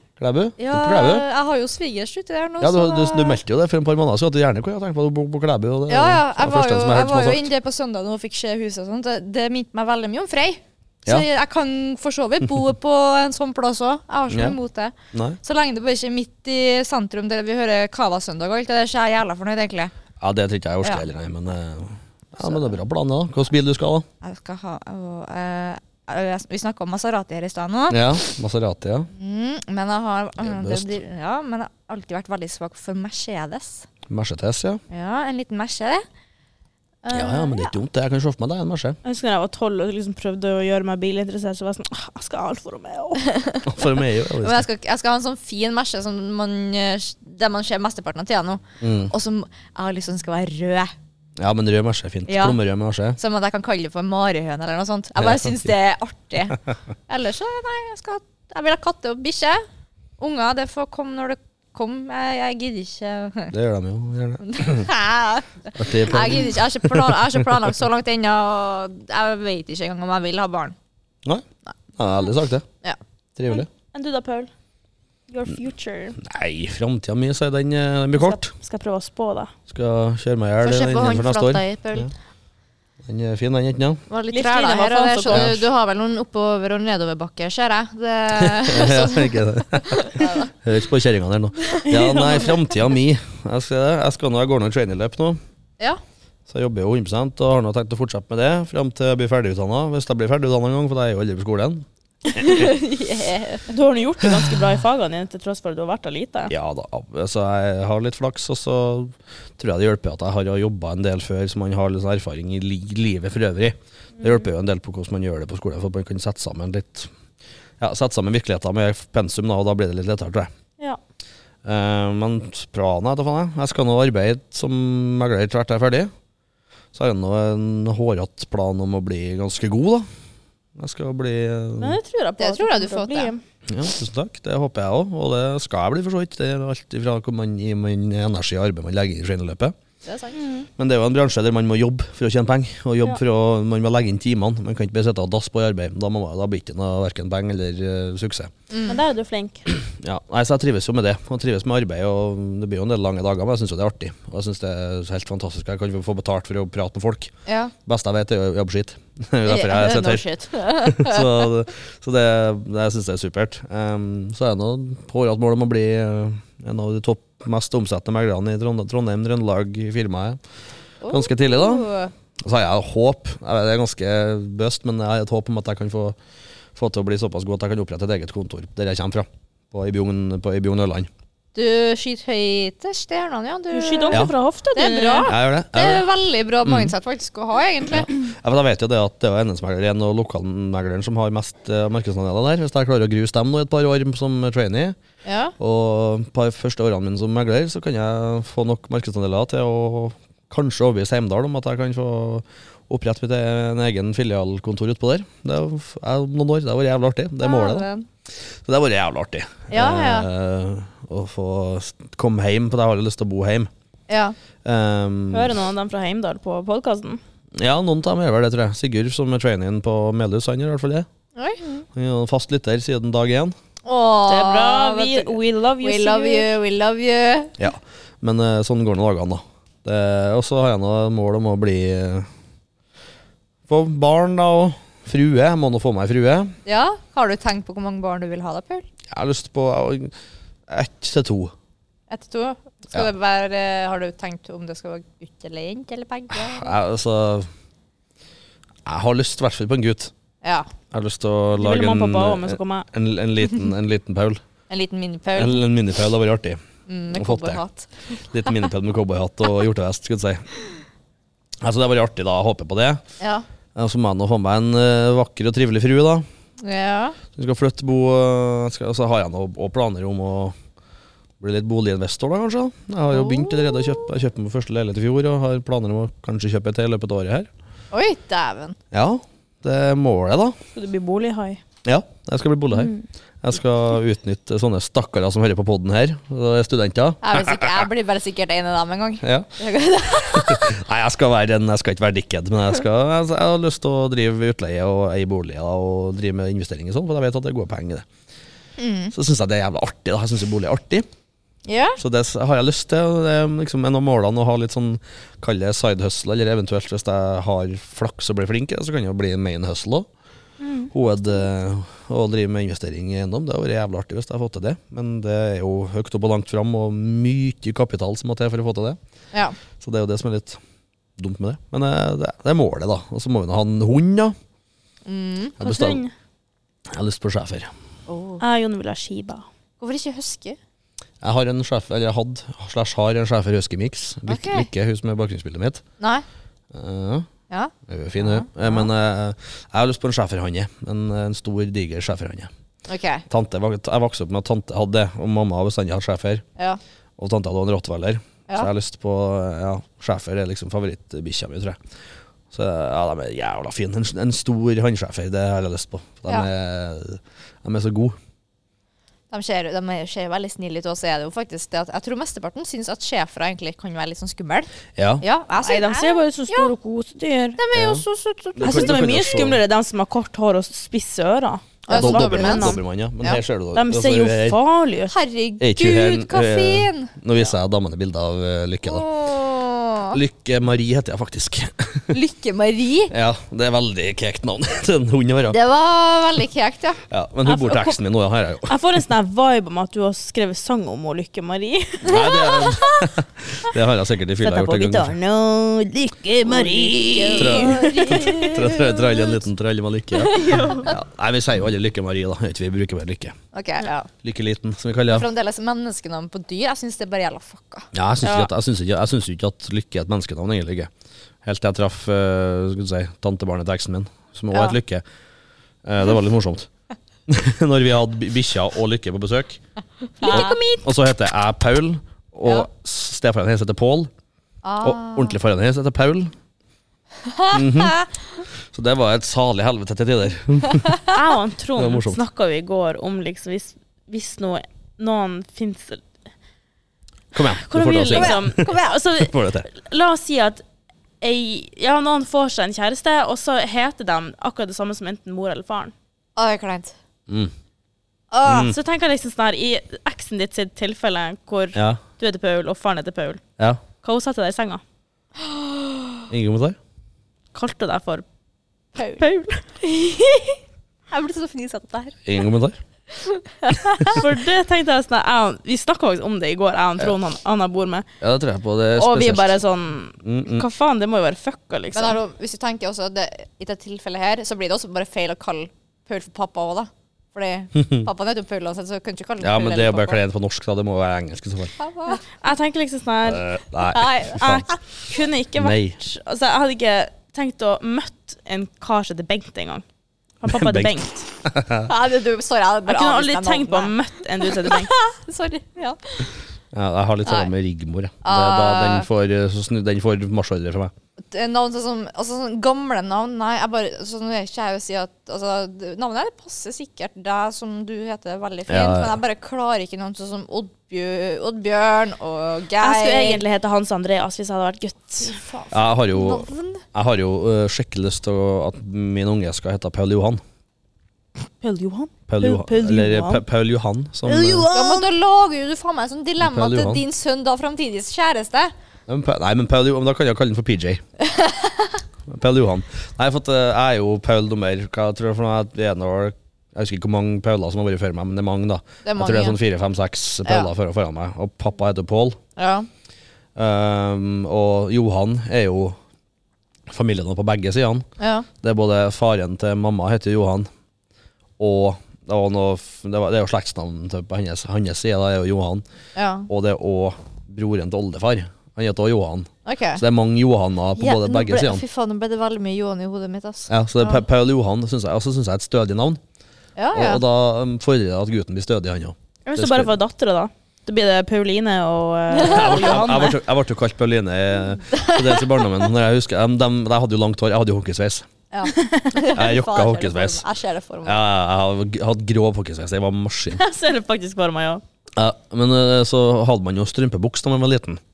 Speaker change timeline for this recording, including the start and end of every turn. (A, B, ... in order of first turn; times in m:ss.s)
0:00.2-0:01.2 A
0:00.6-0:03.4 B
0:02.6-0:07.5 A
0:05.9-0:19.9 B
0:14.3-0:14.6 A
0:15.1-0:15.4 A
0:20.2-0:24.1 A
0:22.4-0:22.7 B
0:24.2-0:28.2 B
0:27.9-0:29.1 A
0:29.1-0:33.9 B
0:30.4-0:30.9 A
0:34.1-0:34.8 A
0:34.9-0:36.0 B
0:37.0-0:37.7 B
0:37.1-0:39.0 A
0:39.0-0:43.2 C
0:43.2-0:50.9 B
0:43.7-0:44.7 A
0:48.8-0:49.1 A
0:51.4-0:53.2 A
0:52.3-0:52.6 B
0:53.2-0:59.6 B
0:55.2-0:55.5 A
1:00.2-1:03.5 B
1:03.5-1:04.9 A
1:04.4-1:10.8 B
1:05.8-1:07.7 A
1:12.0-1:12.7 A
1:13.4-1:13.7 A
1:13.8-1:14.5 C
1:15.3-1:16.2 C
1:16.2-1:18.5 A
1:18.2-1:19.5 C
1:19.7-1:22.1 A
1:20.6-1:22.1 B
1:23.0-1:24.0 A
1:24.1-1:30.5 B
1:24.3-1:25.5 C
1:25.3-1:25.6 A
1:28.4-1:35.4 A
1:31.9-1:32.6 C
1:36.5-1:42.7 A
1:42.4-1:43.7 B
1:43.7-1:46.5 C
1:46.5-1:57.1 A
1:57.8-2:00.5 A
2:01.6-2:06.1 A
2:06.9-2:10.1 A
2:10.8-2:12.0 A
2:11.8-2:13.4 C
2:12.4-2:13.3 B
2:13.7-2:19.8 A
2:20.0-2:20.4 B
2:20.4-2:20.7 C
2:20.8-2:28.5 A
2:28.7-2:29.0 B
2:28.9-2:29.7 C
2:29.7-2:37.3 A
2:37.5-2:37.7 B
2:37.9-2:50.4 A
2:39.5-2:41.5 B
2:51.0-2:52.1 B
2:51.1-2:51.9 A
2:52.4-2:56.2 A
2:56.8-3:01.1 A
3:01.6-3:08.1 B
3:03.7-3:05.3 C
3:05.2-3:06.1 A
3:06.6-3:06.9 A
3:07.9-3:15.0 A
3:15.2-3:15.5 B
3:15.6-3:27.9 A
3:27.4-3:28.1 B
3:28.6-3:33.7 A
3:29.7-3:30.3 B
3:34.1-3:34.4 B
3:34.6-3:35.6 A
3:35.3-3:37.2 C
3:37.6-3:41.1 A
3:41.4-3:41.8 B
3:41.9-3:43.5 A
3:43.8-3:47.6 B
3:44.3-3:46.5 C
3:47.6-3:52.3 A
3:53.7-3:56.5 A
3:56.6-3:58.9 B
3:59.1-4:00.1 A
4:00.7-4:01.5 A
4:02.1-4:06.8 B
4:06.3-4:07.5 A
4:08.9-4:10.1 A
4:10.4-4:10.7 B
4:10.9-4:14.4 A
4:11.6-4:12.9 C
4:14.7-4:15.6 B
4:15.4-4:16.6 A
4:16.9-4:18.6 B
4:17.1-4:17.6 A
4:18.3-4:20.5 A
4:21.6-4:23.0 A
4:23.8-4:26.2 A
4:26.6-4:27.2 B
4:27.3-4:30.6 A
4:31.4-4:37.5 A
4:33.1-4:34.1 B
4:37.9-4:38.8 B
4:38.9-4:40.6 A
4:40.7-4:41.6 C
4:41.8-4:47.9 A
4:47.2-4:50.8 B
4:49.2-4:49.5 A
4:50.3-4:58.1 A
4:58.8-4:59.1 B
4:59.1-5:01.1 A
5:01.7-5:02.0 B
5:02.0-5:10.1 A
5:10.6-5:10.9 C
5:10.9-5:19.0 A
5:19.8-5:20.6 A
5:21.2-5:24.4 A
5:25.1-5:25.6 B
5:25.6-5:26.0 A
5:25.6-5:26.1 C
5:26.9-5:27.7 A
5:28.1-5:28.4 B
5:28.4-5:29.5 C
5:29.8-5:30.6 B
5:31.2-5:35.8 A
5:34.3-5:34.7 B
5:36.0-5:36.2 B
5:36.7-5:37.3 A
5:37.5-5:38.9 B
5:37.9-5:42.5 A
5:42.9-5:43.2 B
5:43.3-5:46.4 A
5:47.2-5:51.8 A
5:52.5-5:58.2 A
5:59.3-6:06.7 B
6:05.0-6:05.2 A
6:05.6-6:07.6 C
6:07.6-6:09.4 B
6:07.7-6:08.0 A
6:08.6-6:09.6 A
6:08.6-6:12.8 C
6:11.9-6:13.4 B
6:11.9-6:14.6 A
6:13.8-6:15.1 C
6:15.1-6:17.1 B
6:15.6-6:19.1 A
6:18.8-6:20.2 B
6:20.1-6:22.2 A
6:22.1-6:23.1 B
6:23.1-6:25.6 A
6:25.5-6:27.0 B
6:27.1-6:28.7 A
6:27.4-6:28.0 C
6:28.7-6:32.2 C
6:32.1-6:33.0 B
6:32.1-6:35.2 A
6:34.4-6:38.7 C
6:36.5-6:39.4 B
6:37.4-6:43.4 A
6:40.3-6:40.8 B
6:40.3-6:40.9 C
6:43.5-6:44.1 B
6:44.2-6:45.3 A
6:45.1-6:47.9 B
6:47.9-6:50.9 A
6:48.2-6:48.5 C
6:51.4-6:55.0 A
6:54.5-6:54.8 B
6:55.8-6:56.7 A
6:57.3-6:59.6 A
7:00.2-7:00.6 B
7:00.2-7:00.8 C
7:00.3-7:04.1 A
7:04.6-7:05.4 B
7:04.8-7:06.3 A
7:07.3-7:08.1 B
7:07.5-7:08.0 A
7:08.7-7:11.0 A
7:10.8-7:11.1 B
7:11.1-7:16.0 C
7:11.8-7:12.2 A
7:17.3-7:18.6 A
7:17.4-7:20.6 C
7:18.1-7:19.0 B
7:19.2-7:19.7 A
7:21.2-7:25.9 C
7:26.4-7:27.0 B
7:28.3-7:28.7 B
7:28.4-7:28.8 A
7:28.6-7:33.4 C
7:31.8-7:32.0 A
7:34.0-7:34.8 C
7:35.4-7:36.3 B
7:36.3-7:36.8 A
7:37.5-7:38.2 C
7:39.0-7:39.2 B
7:39.2-7:39.6 C
7:39.8-7:40.6 B
7:41.1-7:42.2 B
7:42.3-7:42.8 A
7:43.1-7:44.2 B
7:44.1-7:48.1 C
7:48.2-7:49.6 A
7:49.0-7:52.2 C
7:50.2-7:50.7 A
7:51.9-8:00.2 B
7:57.8-7:58.1 A
7:59.4-8:01.8 A
8:01.8-8:02.2 B
8:02.2-8:03.5 C
8:03.2-8:04.7 A
8:03.9-8:04.8 B
8:04.4-8:09.8 C
8:05.6-8:06.0 A
8:10.4-8:11.3 C
8:10.5-8:11.9 A
8:11.8-8:16.3 B
8:12.9-8:14.9 C
8:16.7-8:20.9 A
8:17.2-8:17.5 B
8:18.2-8:19.1 B
8:21.3-8:33.4 B
8:28.7-8:29.2 A
8:32.8-8:35.4 C
8:35.2-8:36.8 B
8:35.7-8:40.4 A
8:41.6-8:43.4 C
8:42.3-8:44.7 A
8:44.2-8:45.1 C
8:44.7-8:48.7 B
8:46.4-8:47.0 A
8:49.1-8:51.0 A
8:51.2-8:52.0 B
8:52.3-9:02.4 A
8:59.0-8:59.6 B
9:00.4-9:00.7 B
9:02.6-9:02.9 B
9:03.6-9:06.0 A
9:06.9-9:08.0 A
9:08.2-9:08.5 B
9:08.6-9:10.7 A
9:11.6-9:15.8 A
9:16.2-9:16.5 B
9:16.5-9:21.8 A
9:19.7-9:20.0 B
9:21.0-9:24.2 B
9:23.7-9:26.2 A
9:26.8-9:27.2 B
9:26.9-9:29.9 A
9:29.5-9:33.4 C
9:32.3-9:33.0 B
9:32.4-9:38.3 A
9:34.9-9:35.9 B
9:38.5-9:41.2 B
9:38.7-9:39.2 C
9:39.3-9:40.4 A
9:41.0-9:43.6 A
9:43.5-9:44.8 C
9:45.2-9:48.0 A